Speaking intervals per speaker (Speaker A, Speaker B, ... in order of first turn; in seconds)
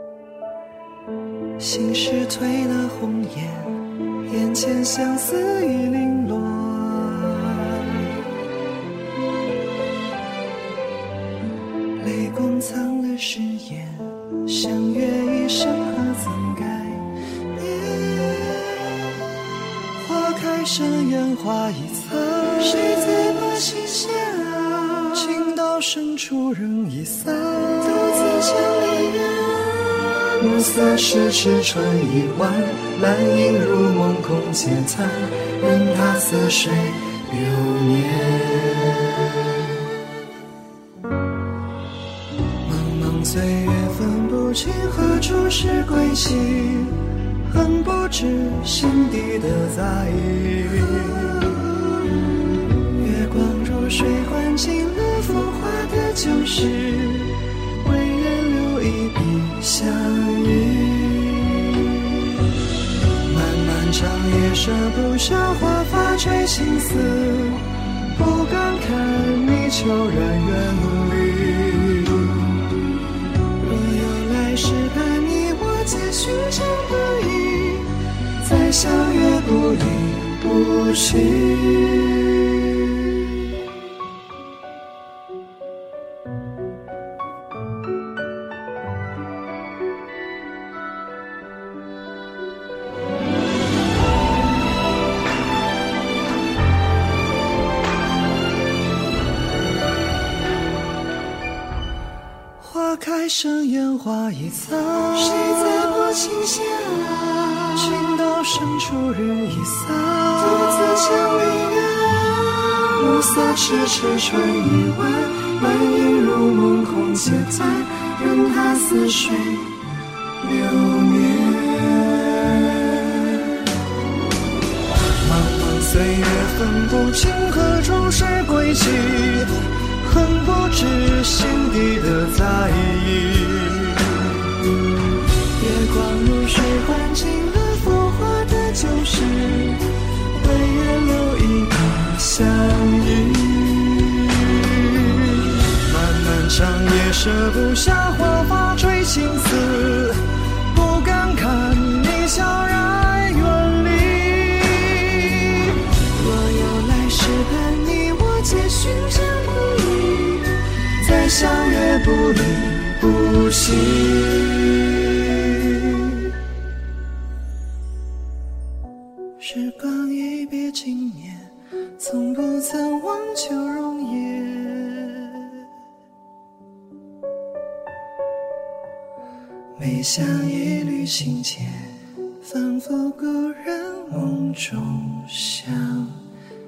Speaker A: 1.6-8.0, 12.0-18.8, 20.0-29.5, 30.4-39.1, 42.6-51.8, 53.0-61.9, 63.3-72.5, 73.6-82.2, 102.6-119.8, 120.4-123.2, 125.1-134.3, 135.6-139.8, 140.3-166.2, 169.4-175.5, 179.8-186.2